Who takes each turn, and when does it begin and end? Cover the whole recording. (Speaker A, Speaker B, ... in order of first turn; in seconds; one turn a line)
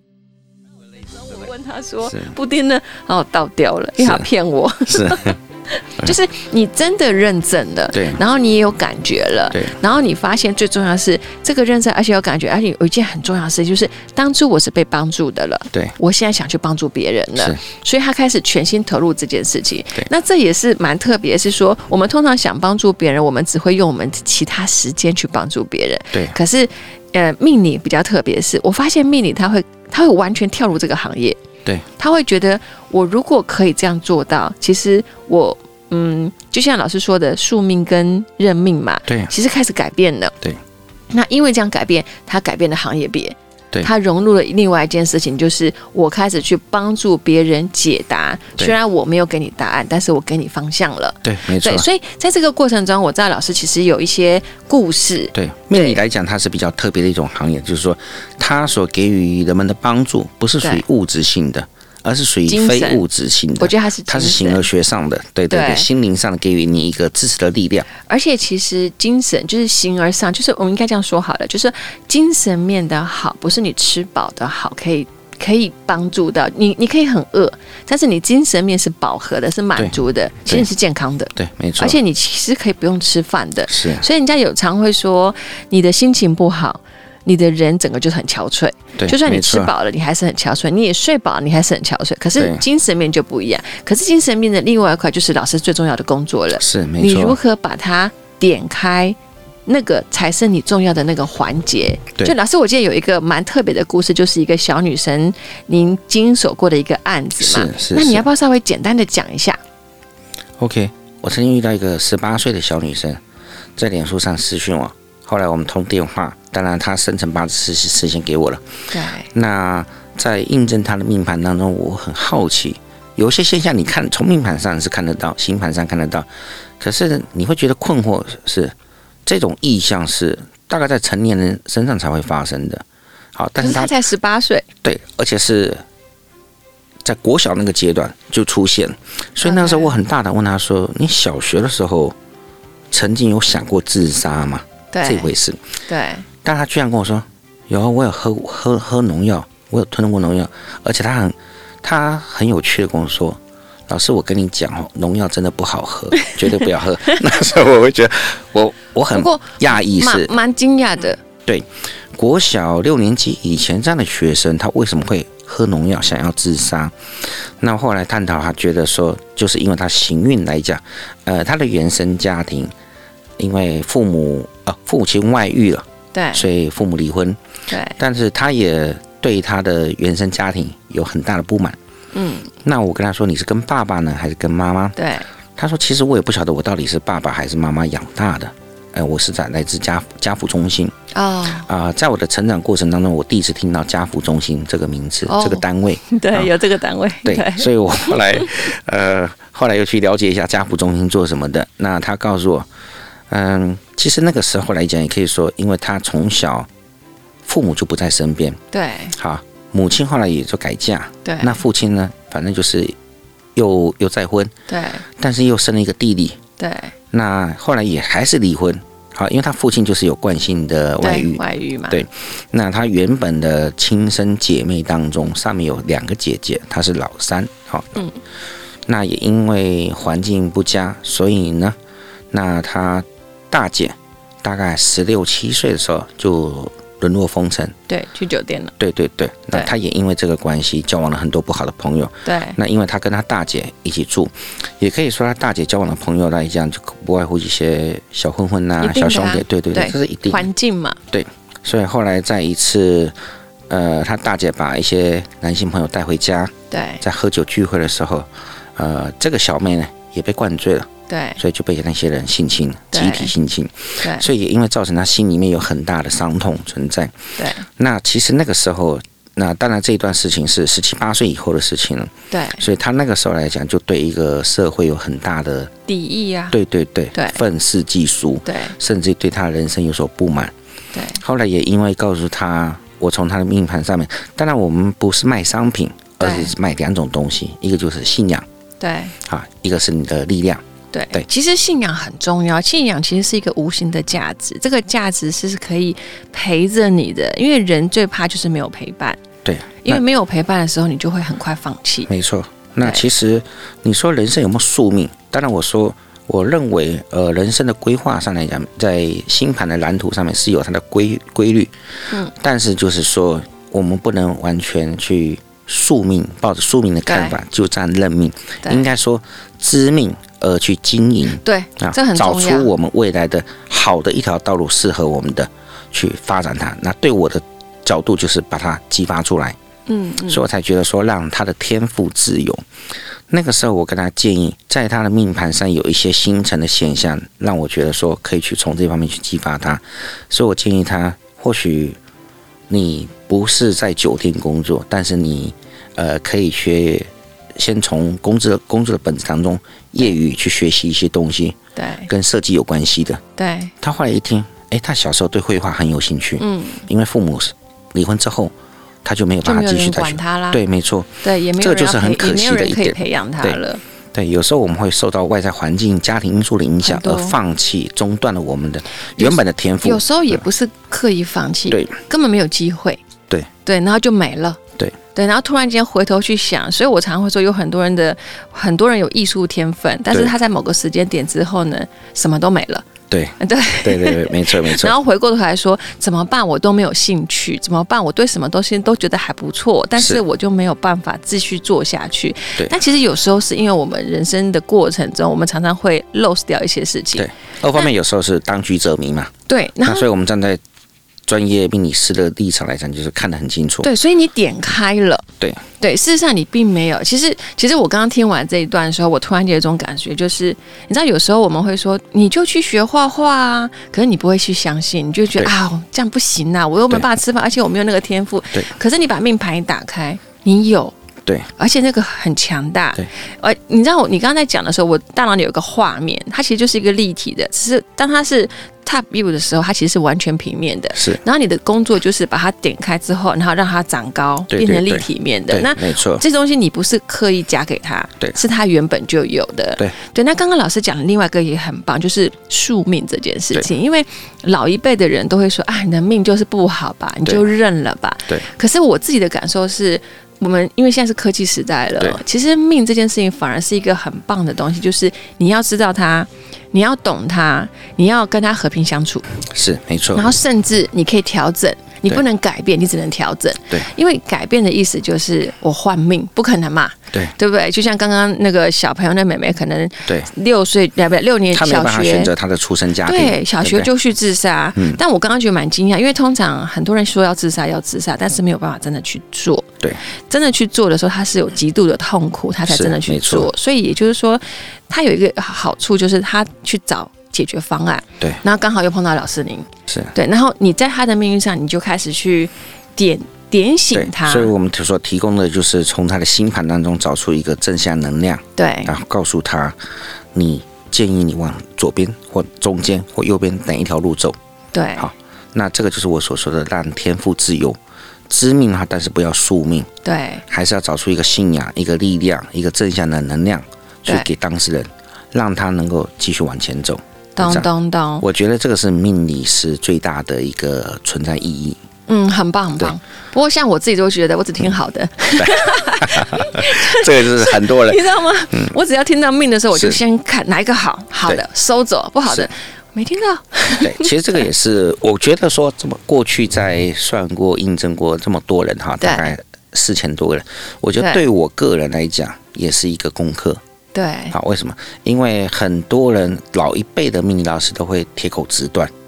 Speaker A: 1.2-31.4
Speaker B: 2.1-2.3
Speaker B: 4.0-4.2
Speaker B: 4.9-5.3
Speaker B: 7.9-8.2
Speaker A: 32.0-40.3
Speaker B: 39.1-39.3
Speaker A: 41.1-56.0
Speaker B: 51.2-51.9
Speaker B: 55.3-67.9
Speaker A: 62.5-63.0
Speaker A: 63.6-64.6
Speaker A: 65.5-65.9
Speaker A: 68.0-99.2
Speaker B: 79.8-80.7
Speaker B: 81.3-82.0
Speaker B: 83.7-84.0
Speaker B: 89.0-89.7
Speaker B: 92.4-92.6
Speaker B: 96.5-97.4
Speaker A: 99.7-109.6
Speaker B: 107.4-108.2
Speaker B: 110.6-113.2
Speaker B: 113.8-118.6
Speaker A: 118.9-119.3
Speaker B: 119.3-126.3
Speaker B: 126.8-128.7
Speaker B: 129.2-132.8
Speaker B: 133.3-133.9
Speaker A: 133.6-134.7
Speaker B: 134.8-135.8
Speaker B: 137.0-142.1
Speaker A: 139.4-139.9
Speaker B: 142.9-145.6
Speaker A: 144.9-145.3
Speaker A: 145.9-146.2
Speaker B: 146.4-160.3
Speaker A: 159.1-161.2
Speaker B: 161.4-166.9
Speaker B: 167.6-172.7
Speaker B: 173.4-177.4
Speaker A: 176.1-176.4
Speaker A: 177.7-178.0
Speaker B: 178.0-181.8
Speaker A: 182.1-182.5
Speaker B: 182.6-185.0
Speaker A: 184.9-185.3
Speaker B: 185.6-190.9
Speaker A: 191.1-191.7
Speaker B: 191.6-196.5
Speaker A: 195.3-198.5
Speaker B: 197.2-202.7
Speaker B: 203.3-206.7
Speaker B: 207.4-208.6
Speaker A: 208.7-209.1
Speaker B: 209.1-212.9
Speaker A: 211.2-211.6
Speaker B: 213.5-214.5
Speaker A: 214.7-215.0
Speaker B: 215.2-216.4
Speaker A: 216.6-216.9
Speaker B: 217.1-228.0
Speaker A: 221.0-222.0
Speaker B: 228.9-231.8
Speaker B: 232.3-237.7
Speaker A: 237.9-238.7
Speaker B: 238.8-250.4
Speaker A: 242.2-242.6
Speaker A: 248.8-251.0
Speaker B: 251.1-253.1
Speaker B: 253.7-275.7
Speaker A: 256.7-257.0
Speaker A: 261.1-261.4
Speaker A: 262.9-263.3
Speaker A: 264.0-264.3
Speaker A: 267.4-267.6
Speaker A: 272.3-272.6
Speaker A: 275.9-276.6
Speaker B: 276.5-280.5
Speaker A: 277.1-277.4
Speaker A: 278.4-278.8
Speaker A: 280.9-281.2
Speaker B: 281.2-288.4
Speaker A: 286.2-286.5
Speaker A: 288.8-289.1
Speaker B: 289.2-290.6
Speaker A: 290.9-299.2
Speaker B: 299.4-300.0
Speaker A: 299.8-302.1
Speaker B: 302.1-311.7
Speaker B: 312.3-329.6
Speaker A: 317.1-317.4
Speaker A: 321.4-322.7
Speaker A: 329.9-330.4
Speaker B: 330.2-332.6
Speaker B: 333.3-342.0
Speaker B: 342.7-351.6
Speaker A: 351.8-352.1
Speaker B: 352.1-353.2
Speaker A: 353.4-353.7
Speaker B: 353.8-358.5
Speaker A: 356.4-356.8
Speaker B: 359.0-363.6
Speaker A: 359.4-360.6
Speaker A: 361.2-363.8
Speaker B: 364.1-370.4
Speaker A: 366.8-367.4
Speaker A: 369.2-373.0
Speaker A: 373.6-374.6
Speaker A: 375.1-382.8
Speaker B: 383.1-384.9
Speaker A: 383.4-397.9
Speaker B: 397.1-399.3
Speaker A: 399.5-400.1
Speaker B: 399.8-400.6
Speaker B: 401.3-403.9
Speaker A: 403.8-405.2
Speaker A: 405.8-420.9
Speaker A: 421.6-459.2
Speaker B: 430.9-431.2
Speaker B: 434.5-436.2
Speaker B: 459.4-460.3
Speaker A: 460.1-472.3
Speaker B: 471.5-473.9
Speaker A: 473.0-479.7
Speaker A: 480.3-494.5
Speaker B: 482.7-483.5
Speaker B: 489.9-490.1
Speaker B: 493.9-499.8
Speaker A: 498.6-498.9
Speaker B: 500.3-504.4
Speaker A: 504.7-505.1
Speaker B: 505.0-507.8
Speaker B: 508.3-509.9
Speaker A: 510.0-510.4
Speaker B: 510.5-517.7
Speaker A: 517.4-518.2
Speaker B: 518.2-521.8
Speaker A: 522.1-534.1
Speaker B: 525.4-528.7
Speaker B: 529.7-530.0
Speaker B: 533.8-543.6
Speaker A: 539.0-539.3
Speaker A: 541.0-541.2
Speaker A: 543.9-544.3
Speaker B: 544.3-548.9